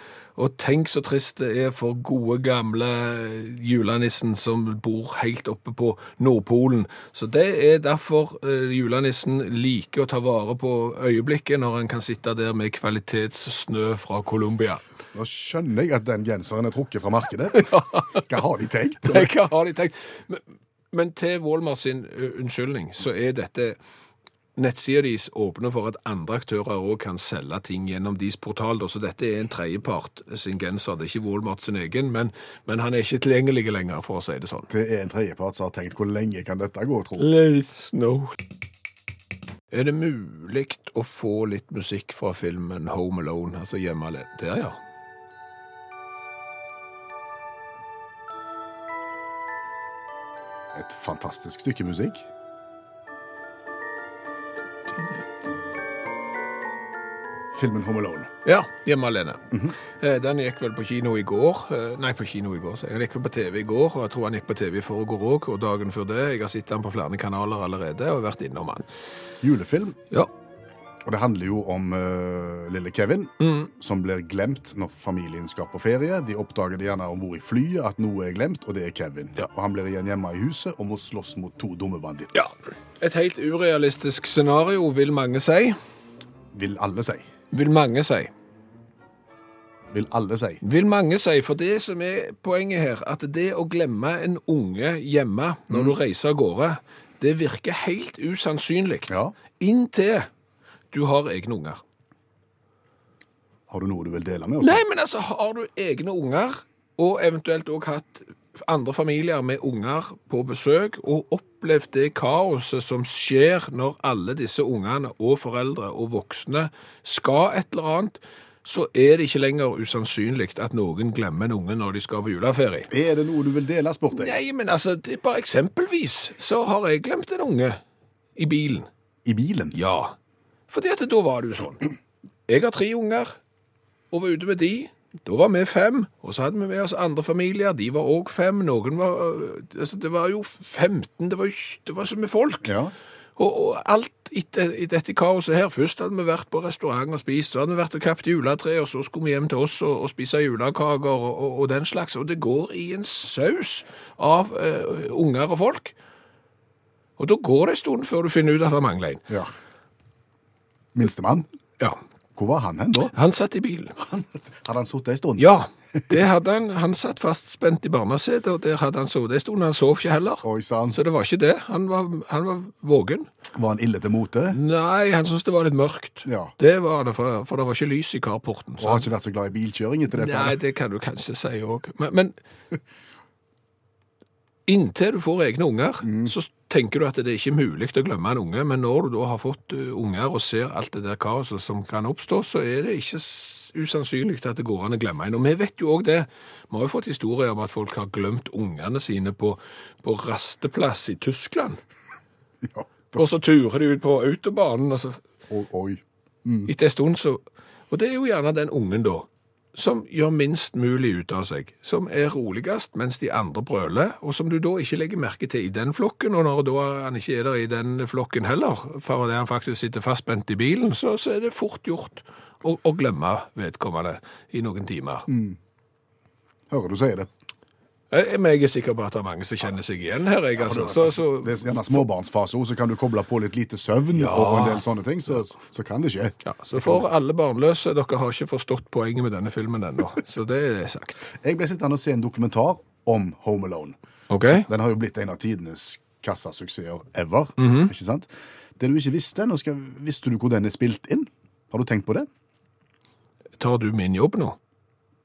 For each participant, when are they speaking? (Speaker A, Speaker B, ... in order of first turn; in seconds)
Speaker A: 0.3-14.8, 17.5-18.3, 19.1-23.8, 24.6-34.7, 37.2-38.3, 39.7-44.8, 58.4-59.4, 60.0-68.8, 73.4-73.7, 82.3-85.8, 87.5-88.3, 90.6-100.3, 100.9-101.8, 104.6-122.9, 124.1-127.8, 128.3-128.9, 129.7-130.1, 130.7-131.9, 132.5-133.3, 134.1-142.7, 143.4-155.9, 157.2-159.2, 163.1-163.9, 165.4-173.3, 174.5-179.1, 180.1-182.3, 184.7-201.8, 203.2-205.2, 206.7-225.2, 228.1-232.0, 234.1-234.8, 236.4-241.2, 244.3-244.7, 247.6-247.9, 253.6-254.6
Speaker B: 15.1-19.3, 34.7-37.2, 50.7-52.3, 57.5-58.3, 69.4-70.0, 71.0-82.3, 86.5-87.3, 89.9-90.6, 95.7-96.0, 99.1-99.3, 103.7-104.8, 122.9-124.4, 129.2-129.8, 142.6-142.9, 160.9-161.5, 162.3-163.1, 164.0-166.0, 170.4-171.0, 173.5-174.6, 176.2-176.5, 178.8-180.6, 186.0-186.3, 202.6-203.3, 205.5-206.7, 225.3-225.6, 226.7-227.3, 230.6-237.0, 241.4-252.3